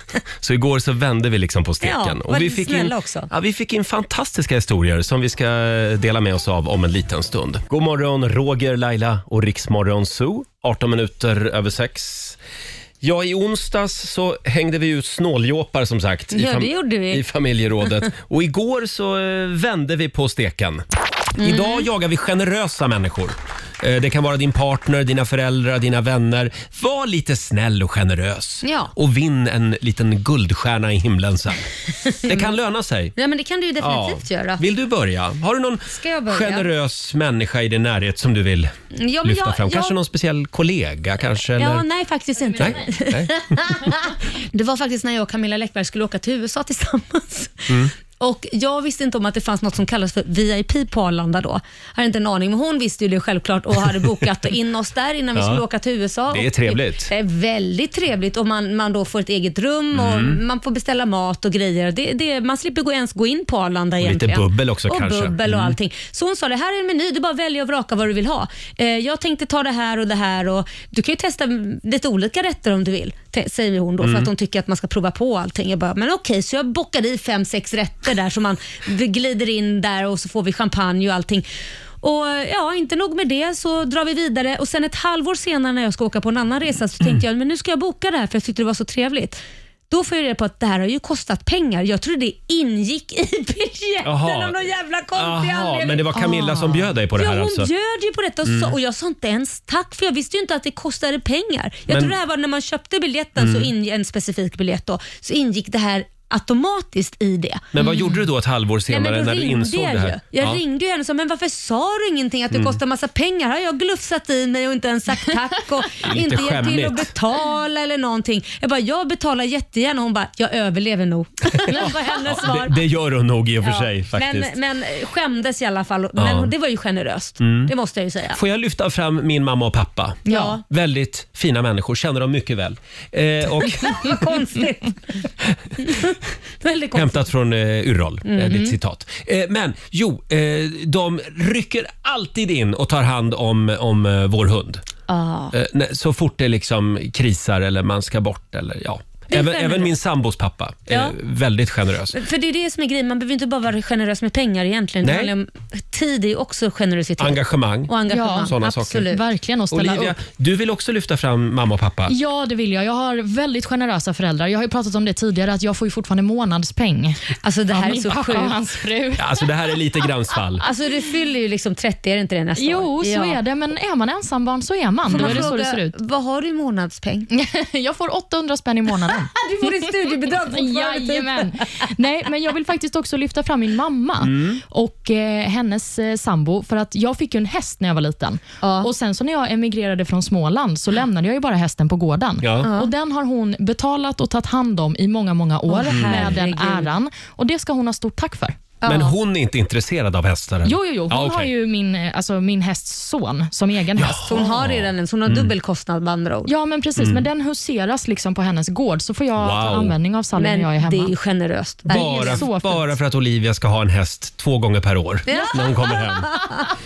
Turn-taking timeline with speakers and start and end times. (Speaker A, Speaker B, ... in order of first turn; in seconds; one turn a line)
Speaker A: 0.4-12.4
Speaker B: 1.8-3.3
Speaker A: 13.0-20.8
Speaker B: 16.3-17.2
Speaker B: 21.4-21.9
Speaker A: 21.4-31.7
Speaker B: 28.6-28.9
Speaker B: 32.0-32.5
Speaker A: 32.2-33.1
Speaker B: 33.1-34.6
Speaker A: 33.8-38.7
Speaker B: 35.9-36.7
Speaker B: 38.9-39.9
Speaker A: 39.2-41.8
Speaker B: 41.6-81.5
Speaker A: 42.6-43.3
Speaker A: 55.4-55.6
Speaker A: 56.3-57.1
Speaker A: 59.9-60.4
Speaker A: 64.0-65.8
Speaker A: 74.0-74.3
Speaker B: 82.0-96.0
Speaker A: 94.0-94.6
Speaker A: 95.1-97.7
Speaker C: 96.1-96.9
Speaker B: 97.2-108.2
Speaker A: 98.4-98.7
Speaker A: 101.9-102.1
Speaker A: 103.4-103.7
Speaker A: 107.7-110.6
Speaker B: 108.9-122.8
Speaker A: 112.5-112.8
Speaker A: 116.0-117.1
Speaker A: 121.6-124.5
Speaker B: 123.6-128.4
Speaker A: 126.2-126.5
Speaker A: 127.4-127.7
Speaker A: 128.3-134.1
Speaker C: 130.3-130.5
Speaker B: 130.3-130.6
Speaker B: 133.8-135.0
Speaker B: 135.8-137.3
Speaker A: 136.9-144.8
Speaker B: 138.2-138.8
Speaker B: 145.1-145.5
Speaker A: 145.5-152.2
Speaker B: 149.3-149.9
Speaker B: 150.9-151.2
Speaker B: 152.1-159.2
Speaker A: 155.0-155.3
Speaker A: 157.2-157.9
Speaker C: 158.1-158.5
Speaker A: 158.5-159.0
Speaker C: 159.1-160.2
Speaker A: 159.7-162.1
Speaker C: 162.1-169.2
Speaker B: 167.4-168.6
Speaker A: 169.2-170.6
Speaker B: 170.6-173.4
Speaker C: 172.6-175.9
Speaker B: 175.1-177.3
Speaker A: 175.1-175.5
Speaker C: 177.3-198.5
Speaker B: 179.4-181.6
Speaker A: 184.2-184.6
Speaker B: 188.6-188.9
Speaker A: 192.4-192.7
Speaker B: 192.6-192.9
Speaker B: 195.7-196.9
Speaker A: 195.9-196.3
Speaker B: 198.8-199.2
Speaker A: 198.8-201.5
Speaker C: 200.6-204.2
Speaker A: 204.0-205.5
Speaker B: 204.2-206.5
Speaker C: 206.4-211.1
Speaker A: 207.0-207.2
Speaker A: 209.4-209.9
Speaker B: 210.4-212.4
Speaker C: 211.9-213.0
Speaker A: 211.9-216.3
Speaker B: 215.2-216.6